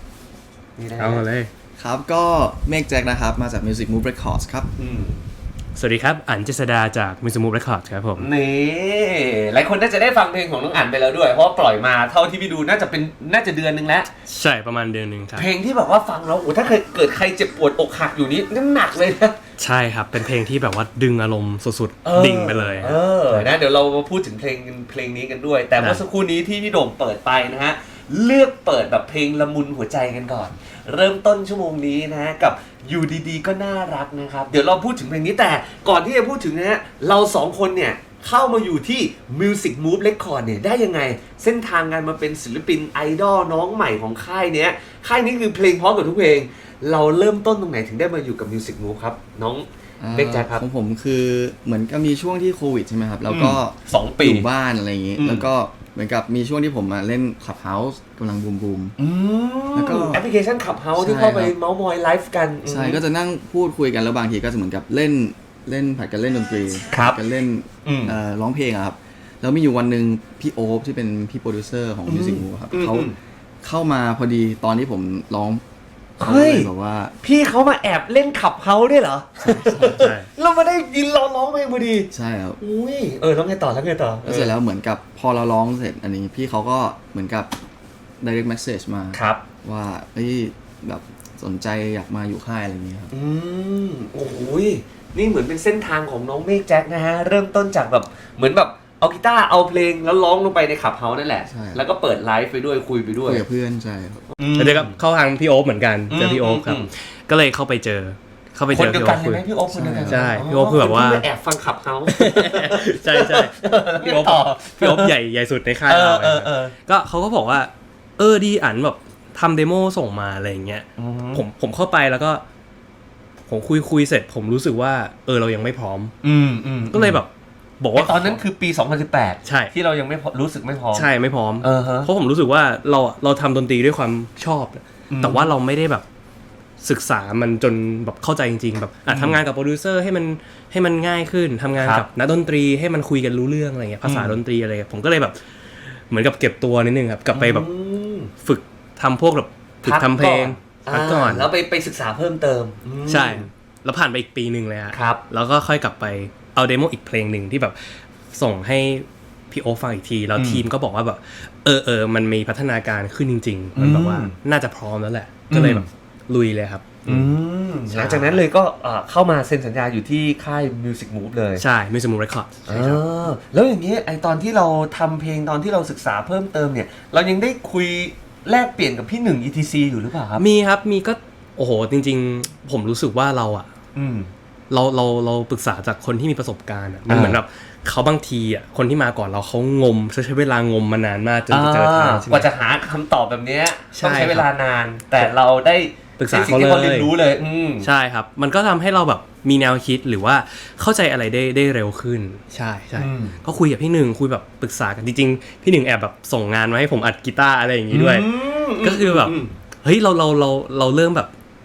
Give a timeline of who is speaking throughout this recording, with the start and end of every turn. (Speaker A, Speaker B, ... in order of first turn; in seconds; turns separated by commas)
Speaker A: 0.8-1.2, Speaker B: 1.0-1.5, Speaker C: 1.8-4.7, Speaker A: 4.8-5.2, Speaker B: 5.8-8.3, Speaker A: 8.2-14.1, Speaker B: 14.2-15.5, Speaker A: 15.3-19.4, Speaker B: 19.6-23.4, Speaker A: 22.0-50.6, Speaker C: 50.0-58.9, Speaker A: 53.3-54.5, Speaker A: 55.2-55.5, Speaker A: 59.0-63.0, Speaker C: 59.7-60.2, Speaker C: 61.0-61.5, Speaker C: 62.6-73.1, Speaker A: 66.9-67.2, Speaker A: 67.8-68.2, Speaker A: 72.1-73.2, Speaker C: 73.6-75.6, Speaker A: 76.2-76.7, Speaker C: 76.2-77.2, Speaker A: 77.2-82.1, Speaker B: 79.5-80.3, Speaker C: 82.1-82.6, Speaker A: 82.6-84.5, Speaker C: 84.2-87.5, Speaker C: 88.2-93.1, Speaker A: 89.1-89.4, Speaker A: 93.1-103.4, Speaker C: 101.5-101.8, Speaker C: 103.2-104.2, Speaker A: 104.4-104.9, Speaker B: 104.5-109.4, Speaker A: 106.1-106.9, Speaker A: 108.7-115.1, Speaker C: 109.7-110.4, Speaker B: 110.1-111.3, Speaker B: 112.1-122.4, Speaker A: 115.9-116.7, Speaker A: 121.0-121.4, Speaker B: 123.5-126.1, Speaker A: 126.2-127.2, Speaker B: 126.9-127.3, Speaker B: 127.8-128.4, Speaker A: 127.9-131.1, Speaker B: 129.4-129.7, Speaker B: 130.9-136.0, Speaker A: 131.6-132.1, Speaker A: 135.1-135.5, Speaker B: 136.8-145.4, Speaker A: 139.1-139.4, Speaker A: 141.8-142.1, Speaker A: 144.0-144.3, Speaker B: 145.9-147.7, Speaker A: 147.3-148.3, Speaker B: 148.4-151.5, Speaker A: 149.8-153.5, Speaker B: 153.1-167.3, Speaker A: 154.9-155.2, Speaker A: 160.3-160.6, Speaker A: 163.7-164.3, Speaker A: 165.5-165.9, Speaker A: 167.0-171.6, Speaker B: 167.9-168.4, Speaker B: 171.6-173.0, Speaker A: 172.7-180.4, Speaker B: 180.4-183.7, Speaker A: 183.9-184.3, Speaker B: 184.7-192.5, Speaker A: 187.1-187.4, Speaker A: 191.5-197.9, Speaker B: 193.9-194.5, Speaker B: 196.2-197.1, Speaker B: 197.8-208.3, Speaker A: 202.9-203.4, Speaker A: 207.9-209.5, Speaker B: 208.8-211.3